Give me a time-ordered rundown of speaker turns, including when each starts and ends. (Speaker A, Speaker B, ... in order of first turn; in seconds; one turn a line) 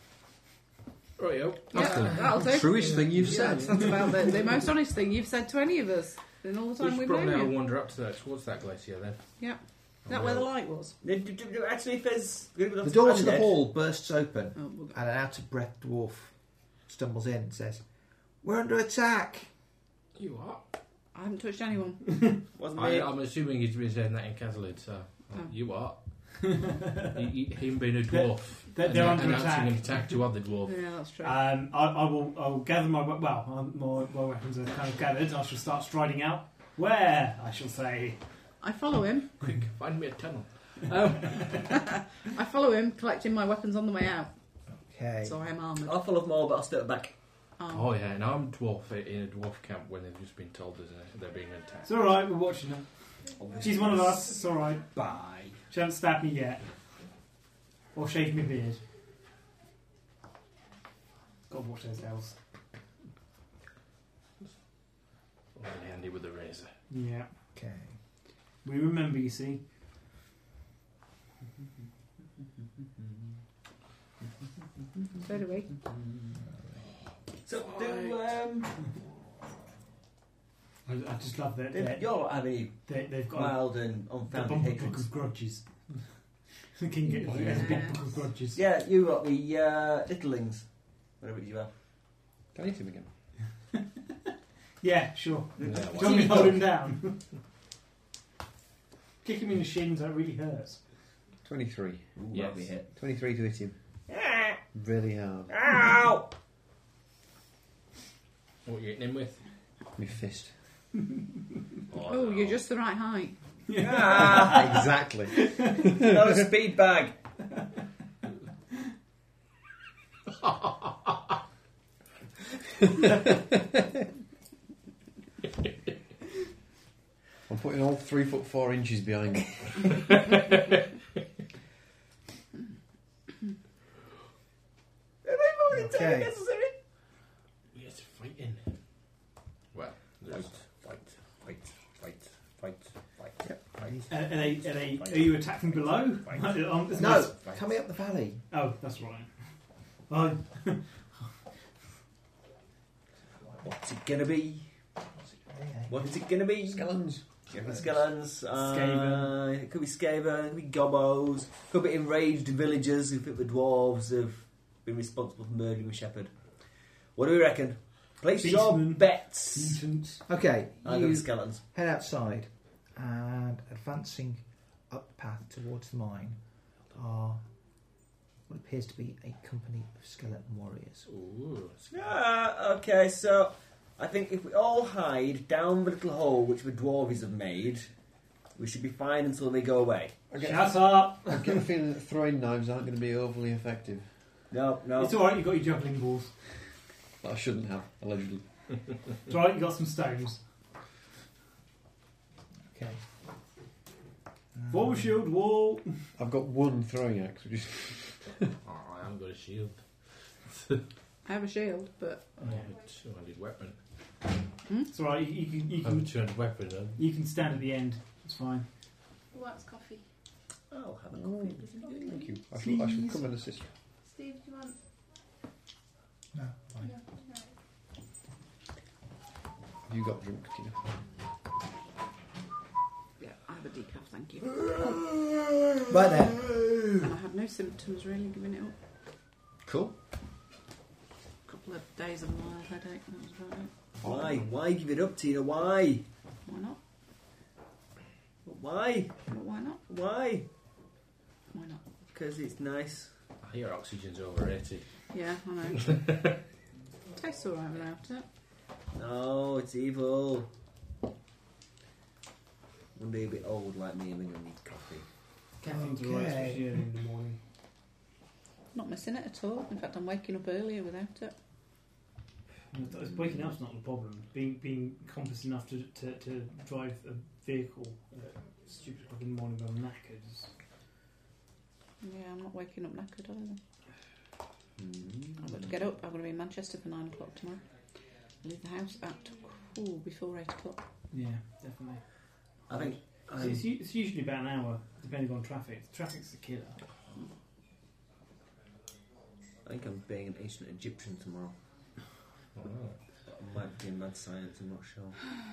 Speaker A: 1.2-3.6
Speaker B: 1.7-7.6
Speaker C: 1.7-4.5
Speaker A: 6.8-9.3
Speaker B: 9.4-10.9
Speaker A: 10.0-10.5
Speaker D: 11.0-13.5
Speaker E: 12.8-17.9
Speaker B: 14.6-15.0
Speaker E: 18.4-19.5
Speaker A: 20.1-20.7
Speaker B: 21.1-22.1
Speaker F: 22.1-22.4
Speaker D: 22.5-23.1
Speaker A: 22.7-30.8
Speaker F: 26.4-27.2
Speaker F: 28.1-30.4
Speaker B: 30.6-31.5
Speaker F: 31.2-38.5
Speaker B: 38.6-39.6
Speaker A: 39.4-41.7
Speaker B: 41.6-44.3
Speaker E: 44.7-45.4
Speaker B: 45.2-46.0
Speaker D: 45.8-47.1
Speaker B: 47.6-47.9
Speaker A: 47.7-51.9
Speaker F: 51.8-54.9
Speaker D: 53.4-55.6
Speaker F: 55.7-56.8
Speaker F: 57.9-58.8
Speaker F: 61.5-62.4
Speaker A: 65.5-66.8
Speaker F: 66.9-67.3
Speaker E: 67.5-68.0
Speaker F: 68.6-69.7
Speaker B: 75.2-75.8
Speaker E: 76.5-76.8
Speaker D: 77.4-78.8
Speaker F: 80.8-88.6
Speaker D: 81.7-85.1
Speaker B: 87.1-88.0
Speaker D: 87.2-91.7
Speaker C: 92.5-93.1
Speaker F: 94.8-97.3
Speaker A: 95.6-96.7
Speaker D: 95.6-96.5
Speaker F: 99.2-100.9
Speaker C: 101.4-102.2
Speaker D: 102.2-102.9
Speaker A: 102.3-102.7
Speaker C: 102.9-103.8
Speaker D: 104.1-104.6
Speaker C: 104.7-105.5
Speaker D: 105.5-106.3
Speaker A: 108.7-109.5
Speaker C: 110.0-110.5
Speaker A: 111.9-112.6
Speaker B: 112.0-113.4
Speaker F: 113.7-115.9
Speaker D: 113.8-114.9
Speaker C: 114.5-116.0
Speaker D: 116.0-117.2
Speaker C: 127.5-130.0
Speaker D: 135.2-136.8
Speaker E: 135.7-136.3
Speaker A: 137.7-138.8
Speaker A: 139.7-140.7
Speaker D: 140.3-147.6
Speaker F: 144.1-147.4
Speaker E: 147.0-148.5
Speaker F: 148.5-151.5
Speaker D: 153.6-154.8
Speaker E: 155.2-156.0
Speaker D: 155.9-166.4
Speaker C: 156.7-157.9
Speaker F: 158.5-159.3
Speaker D: 167.1-169.8
Speaker F: 168.4-170.3
Speaker E: 170.3-177.4
Speaker D: 170.8-171.6
Speaker E: 178.5-181.1
Speaker A: 181.1-182.2
Speaker D: 181.9-187.9
Speaker D: 188.6-190.2
Speaker C: 190.3-194.3
Speaker F: 190.4-191.6
Speaker D: 194.5-195.2
Speaker F: 195.0-196.8
Speaker C: 197.2-199.1
Speaker F: 199.2-200.4
Speaker E: 202.7-203.0
Speaker E: 204.6-205.2
Speaker F: 204.7-206.1
Speaker C: 206.2-208.5
Speaker A: 208.6-210.8
Speaker B: 211.2-212.5
Speaker A: 212.4-213.8
Speaker F: 214.9-216.1
Speaker A: 215.8-217.0
Speaker F: 217.0-218.7
Speaker G: 219.3-220.1
Speaker D: 220.7-222.2
Speaker C: 221.1-223.7
Speaker G: 221.7-222.3
Speaker F: 222.5-223.4
Speaker G: 224.0-224.8
Speaker E: 226.3-227.0
Speaker G: 226.8-227.5
Speaker C: 229.9-231.0
Speaker B: 233.2-234.7
Speaker E: 235.9-236.7
Speaker B: 237.0-238.8
Speaker C: 239.6-240.0
Speaker B: 241.5-243.7
Speaker C: 244.0-244.5
Speaker D: 244.0-246.1
Speaker B: 246.5-246.8
Speaker D: 248.4-249.2
Speaker B: 249.3-249.8
Speaker D: 249.9-250.5
Speaker B: 251.5-251.8
Speaker D: 252.1-253.1
Speaker A: 253.4-255.1
Speaker B: 255.1-256.0
Speaker A: 255.7-256.4
Speaker B: 257.1-258.3
Speaker D: 258.9-260.5
Speaker D: 262.9-265.1
Speaker F: 265.6-267.4
Speaker E: 265.6-266.8
Speaker B: 268.7-271.4
Speaker F: 272.7-280.5
Speaker B: 282.0-283.6
Speaker D: 284.8-285.7
Speaker B: 285.4-287.7
Speaker B: 288.4-290.9
Speaker F: 291.1-296.8
Speaker D: 292.7-293.7
Speaker D: 299.6-301.6
Speaker A: 302.5-303.0
Speaker D: 303.2-305.2